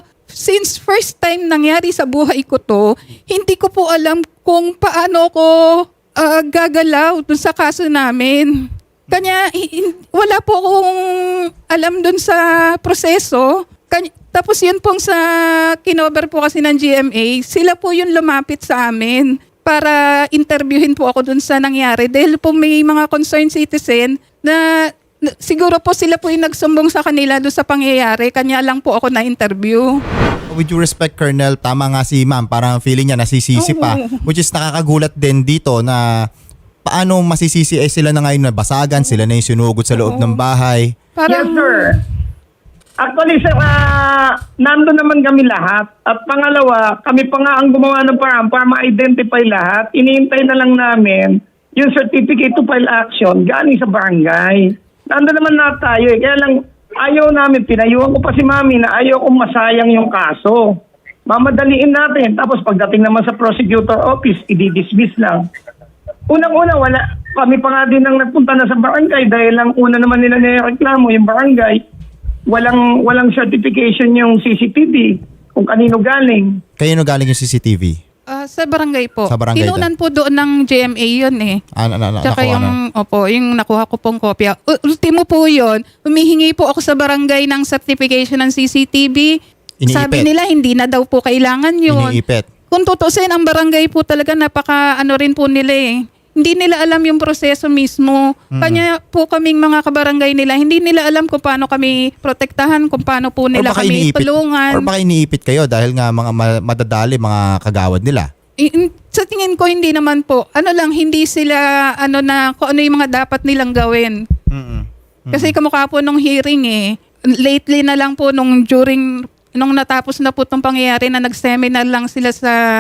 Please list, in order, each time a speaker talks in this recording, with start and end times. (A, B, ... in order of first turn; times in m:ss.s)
0:00.3-0:24.6 A
0:25.3-0:30.0 A
0:30.5-0:36.3 B
0:33.6-0:34.2 A
0:36.8-0:40.9 B
0:39.9-0:40.4 A
0:41.2-0:42.0 A
0:41.3-0:42.0 C
0:43.0-1:00.8 C
1:01.3-1:05.4 C
1:06.3-1:11.8 C
1:12.5-1:16.5 C
1:16.8-1:18.0 B
1:18.3-1:21.6 A
1:19.3-1:19.9 B
1:21.7-1:22.8 B
1:22.2-1:29.3 A
1:29.8-1:30.3 B
1:29.9-1:32.1 A
1:31.9-1:32.4 B
1:32.7-1:44.9 A
1:38.5-1:38.8 B
1:43.5-1:48.3 B
1:48.6-1:54.2 A
1:54.5-1:55.6 B
1:55.3-1:56.8 A
1:57.4-2:02.6 A